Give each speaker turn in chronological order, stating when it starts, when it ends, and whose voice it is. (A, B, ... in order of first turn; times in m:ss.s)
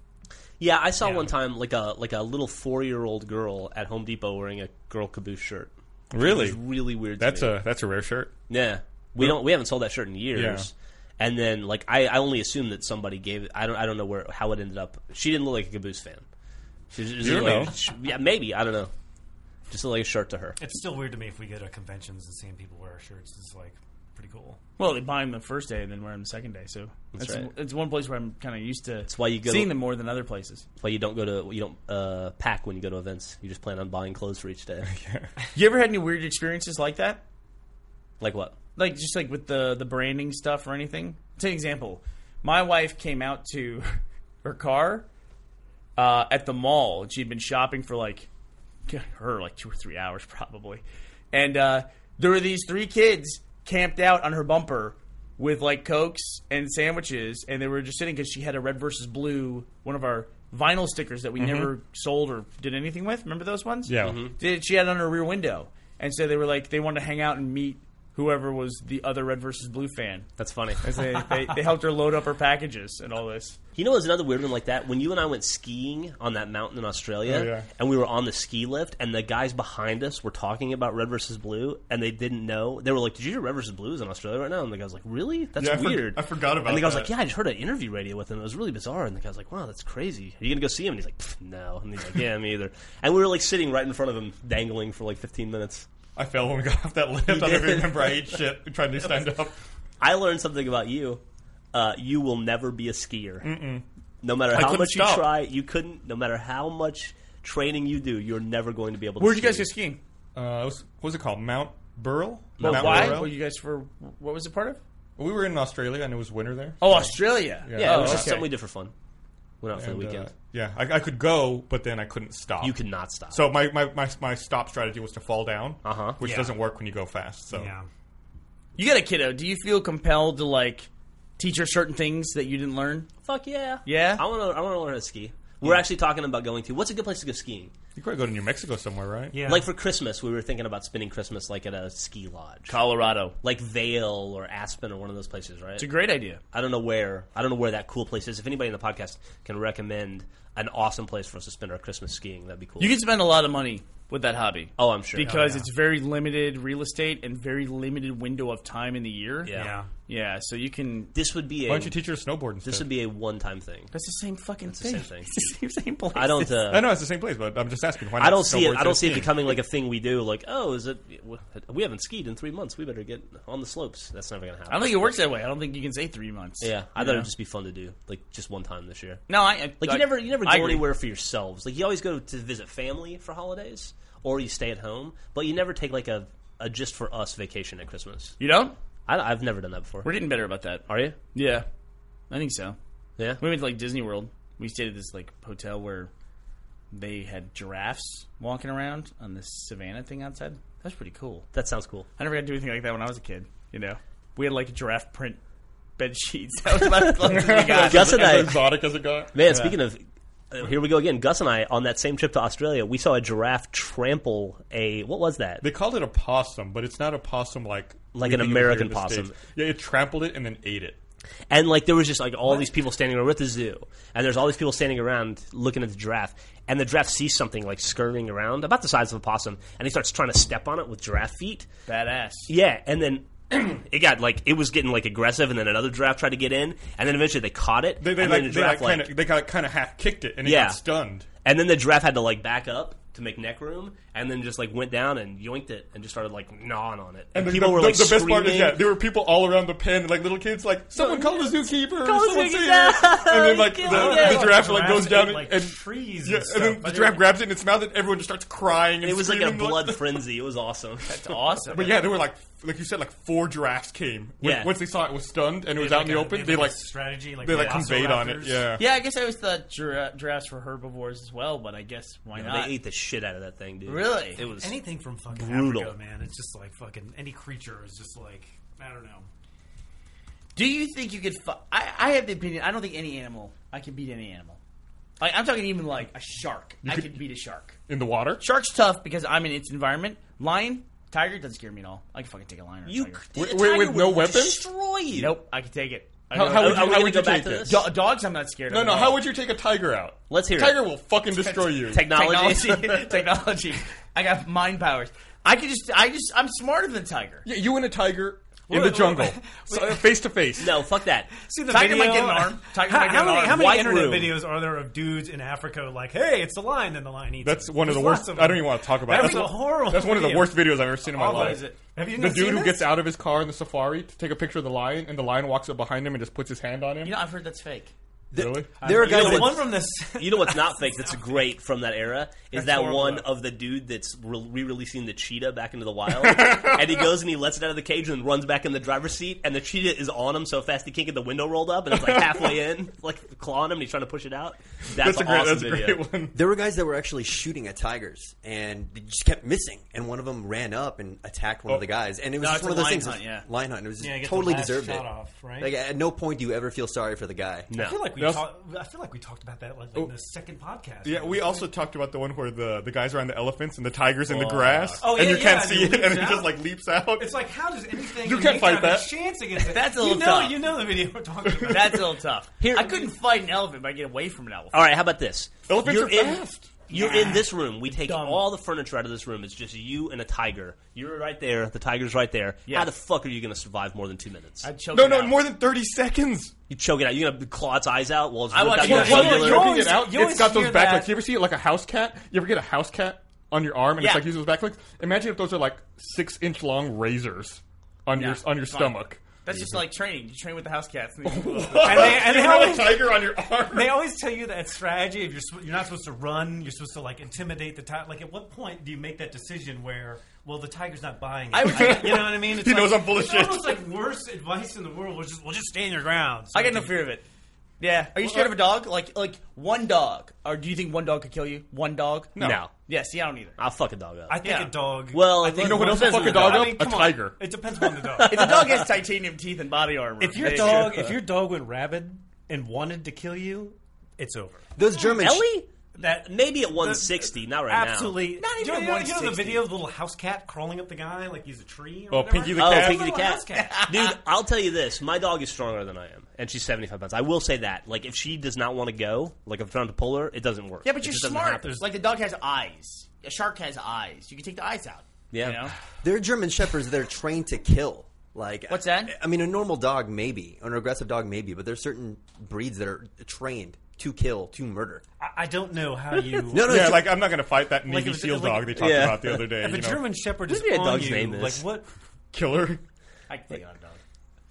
0:00.6-0:07.6 A
0:06.1-0:08.4 B
0:08.5-0:16.2 A
0:09.2-0:09.4 B
0:10.3-0:10.7 B
0:16.9-0:18.9 A
0:17.2-0:17.8 B
0:19.7-0:20.6 A
0:20.6-0:24.6 C
0:24.8-0:30.6 D
0:27.1-0:27.5 A
0:29.1-0:29.8 A
0:30.8-0:34.9 A
0:34.9-0:35.3 B
0:35.5-0:37.2 D
0:38.2-0:38.6 A
0:38.8-0:45.1 D
0:46.0-0:48.3 D
0:48.9-1:10.3 D
1:01.4-1:01.7 B
1:03.9-1:04.2 B
1:04.0-1:04.4 A
1:10.4-1:10.9 A
1:10.8-1:13.6 D
1:13.8-1:35.9 A
1:17.2-1:17.7 B
1:25.6-1:27.1 B
1:36.2-1:39.6 B
1:37.3-1:38.2 A
1:40.0-1:41.2 A
1:41.7-1:43.5 A
1:43.4-1:43.8 B
1:44.2-1:49.7 A
1:44.5-1:45.2 B
1:49.2-1:50.0 D
1:50.4-1:53.3 B
1:52.6-1:53.3 A
1:52.6-1:54.8 D
1:55.2-1:58.4 B
1:56.8-1:58.5 D
1:57.7-1:58.9 A
1:59.6-2:00.3 A
1:59.8-2:02.8 B
2:02.6-2:03.4 A
2:03.3-2:07.7 B
2:05.8-2:06.2 A
2:06.2-2:06.6 C
2:07.5-2:07.9 C
2:08.8-2:13.1 D
2:13.2-2:17.7 A
2:13.8-2:14.2 D
2:18.0-2:19.4 B
2:19.3-2:19.7 C
2:19.4-2:22.8 A
2:22.7-2:23.4 D
2:23.4-2:25.9 A
2:25.8-2:26.4 D
2:26.5-2:33.0 A
2:32.8-2:39.5 D
2:34.8-2:35.4 A
2:35.2-2:35.7 C
2:39.4-2:39.8 A
2:39.5-2:39.9 C
2:40.1-2:41.1 D
2:41.1-2:42.0 A
2:41.6-2:42.9 B
2:42.6-2:43.9 A
2:43.9-2:46.6 D
2:44.7-2:45.3 A
2:46.1-2:46.9 A
2:46.7-2:49.5 B
2:48.2-2:55.1 A
2:54.7-2:57.3 D
2:56.6-2:59.2 A
2:59.3-3:00.9 D
2:59.8-3:08.4 A
3:08.4-3:08.8 D
3:09.1-3:10.1 A
3:10.0-3:11.7 D
3:10.9-3:11.2 A
3:12.3-3:12.8 D
3:13.4-3:16.1 D
3:16.9-3:21.5 D
3:21.5-3:22.1 A
3:22.2-3:25.4 D
3:26.0-3:28.4 D
3:27.0-3:28.7 A
3:27.2-3:29.4 B
3:29.3-3:35.7 A
3:35.6-3:41.0 B
3:38.1-3:39.4 A
3:41.5-3:51.7 A
3:51.9-3:52.5 D
3:52.5-3:59.1 A
3:58.0-4:01.3 B
4:00.4-4:00.8 A
4:01.4-4:08.8 A
4:07.3-4:20.2 B
4:11.0-4:14.7 A
4:13.8-4:17.3 C
4:19.0-4:21.4 A
4:21.1-4:22.0 D
4:21.7-4:26.8 B
4:24.4-4:24.7 A
4:25.7-4:28.8 C
4:27.4-4:28.8 B
4:27.6-4:27.8 D
4:28.8-4:32.8 D
4:32.3-4:34.8 A
4:33.8-4:34.4 D
4:34.4-4:39.3 C
4:35.3-4:36.0 A
4:40.6-4:44.6 D
4:45.2-4:47.8 D
4:46.8-4:47.2 B
4:47.9-4:48.4 B
4:48.4-4:53.3 D
4:52.9-4:55.4 A
4:53.4-4:54.7 B
4:55.2-4:57.1 D
4:56.3-4:57.8 B
4:56.4-4:57.9 A
4:57.6-4:59.2 D
4:58.7-5:02.1 B
5:00.3-5:00.8 A
5:01.3-5:07.5 D
5:01.9-5:03.2 A
5:07.4-5:10.8 B
5:08.7-5:10.1 C
5:10.6-5:11.3 A
5:11.3-5:22.9 C
5:11.7-5:13.7 D
5:13.5-5:14.4 A
5:17.4-5:27.2 B
5:21.1-5:21.8 D
5:27.0-5:27.9 D
5:28.3-5:29.7 E
5:28.4-5:28.7 B
5:28.8-5:31.4 C
5:28.9-5:46.1 A
5:32.5-5:33.2 C
5:32.6-5:33.2 D
5:36.1-5:37.1 B
5:41.9-5:42.6 B
5:44.9-5:46.4 B
5:46.3-5:57.7 E
5:52.4-5:53.5 D
5:54.0-5:55.7 C
5:57.7-5:58.1 A
5:57.7-6:01.7 C
5:58.2-5:58.5 B
6:01.0-6:07.3 B
6:04.3-6:05.2 D
6:05.0-6:06.6 C
6:07.2-6:12.1 C
6:08.2-6:09.1 B
6:09.6-6:10.8 D
6:11.5-6:11.9 B
6:11.7-6:14.9 D
6:12.6-6:13.0 A
6:14.7-6:24.7 A
6:15.7-6:16.7 B
6:16.9-6:18.4 D
6:17.0-6:17.3 C
6:24.6-6:25.4 D
6:24.9-6:26.5 B
6:26.7-6:29.8 A
6:28.5-6:29.7 D
6:28.8-6:39.2 B
6:28.8-6:31.2 C
6:34.0-6:34.3 D
6:38.2-6:42.2 D
6:39.5-6:39.8 A
6:41.2-6:44.0 B
6:41.8-6:57.0 C
6:51.5-6:52.4 D
6:51.7-6:53.8 B
6:56.5-6:57.3 D
6:57.8-7:03.6 D
7:02.4-7:02.6 B
7:02.4-7:02.7 A
7:03.6-7:04.5 A
7:04.3-7:08.5 C
7:04.4-7:04.7 D
7:05.1-7:06.8 A
7:05.6-7:07.4 B
7:07.9-7:08.9 A
7:08.3-7:11.0 D
7:10.2-7:15.3 C
7:10.4-7:11.2 A
7:14.8-7:15.5 E
7:15.2-7:18.3 A
7:15.9-7:23.8 C
7:18.4-7:19.8 D
7:22.1-7:23.1 B
7:22.6-7:31.8 A
7:23.5-7:24.2 D
7:30.8-7:35.8 D
7:35.3-7:35.7 A
7:36.0-7:45.0 E
7:38.7-7:39.1 D
7:45.2-7:47.1 C
7:46.1-7:46.4 A
7:46.5-7:47.2 E
7:46.6-7:50.0 B
7:47.8-7:51.9 C
7:48.8-7:49.5 A
7:50.5-7:51.6 A
7:52.3-7:52.8 B
7:53.3-7:54.0 D